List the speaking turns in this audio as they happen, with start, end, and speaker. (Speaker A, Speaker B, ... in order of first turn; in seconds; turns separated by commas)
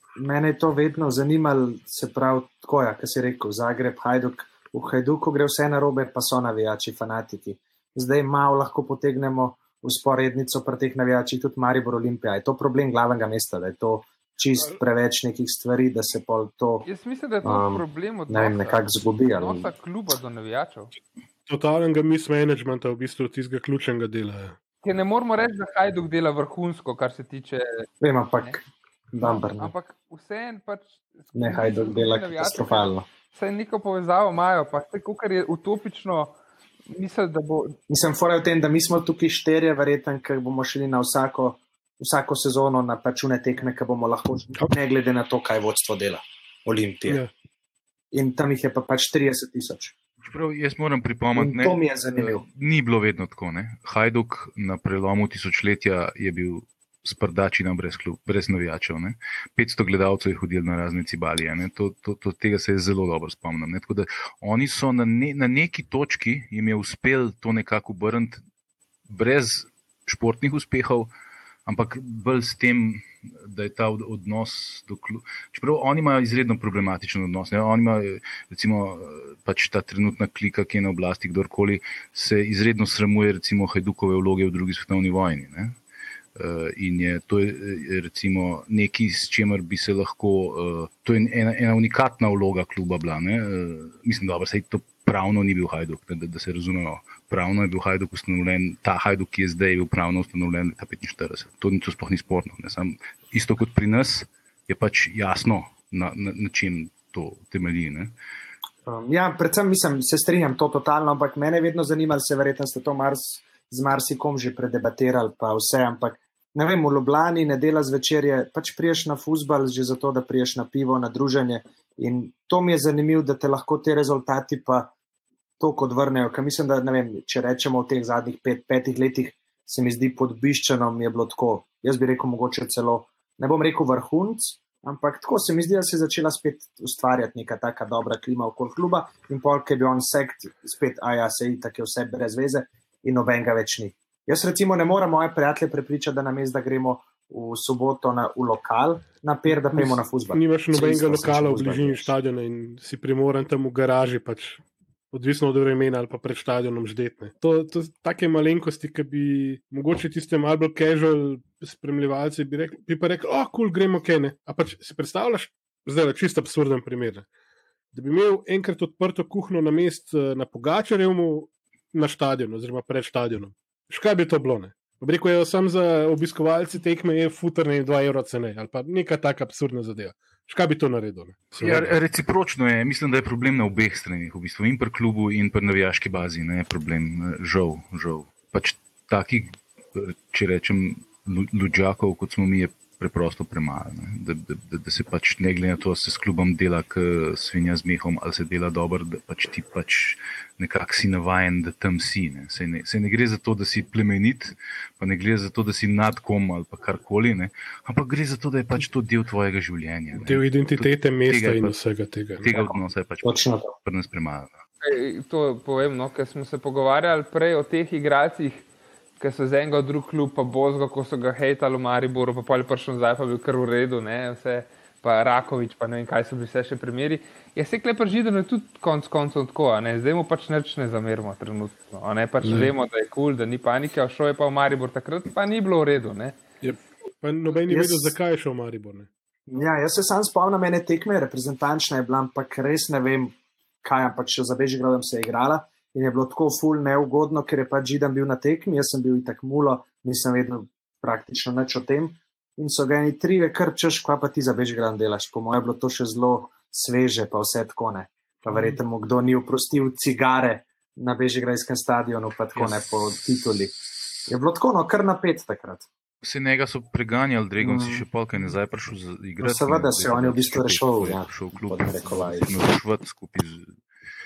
Speaker A: 0.2-16.9, Speaker B: 16.9-20.9, Speaker A: 17.4-19.7, Speaker C: 21.5-24.6, Speaker B: 24.8-27.9, Speaker A: 28.0-29.7, Speaker B: 29.2-36.4, Speaker A: 31.4-33.1, Speaker B: 36.9-37.8, Speaker A: 37.9-47.2, Speaker A: 48.1-49.9, Speaker D: 50.2-68.4, Speaker A: 51.4-52.4, Speaker D: 69.1-71.1, Speaker D: 71.7-85.8, Speaker D: 86.4-108.1, Speaker A: 108.9-124.9, Speaker A: 125.6-152.1, Speaker C: 149.5-167.3, Speaker C: 167.9-181.9, Speaker D: 181.6-211.8, Speaker C: 210.2-212.5, Speaker D: 212.4-214.6, Speaker A: 212.5-213.7, Speaker B: 214.8-218.7, Speaker B: 219.2-236.4, Speaker C: 232.4-232.7, Speaker C: 236.6-239.1, Speaker A: 237.7-238.2, Speaker A: 239.5-263.7, Speaker D: 262.6-263.3, Speaker A: 264.3-265.9, Speaker D: 266.2-273.8, Speaker A: 267.6-268.1, Speaker A: 269.4-272.6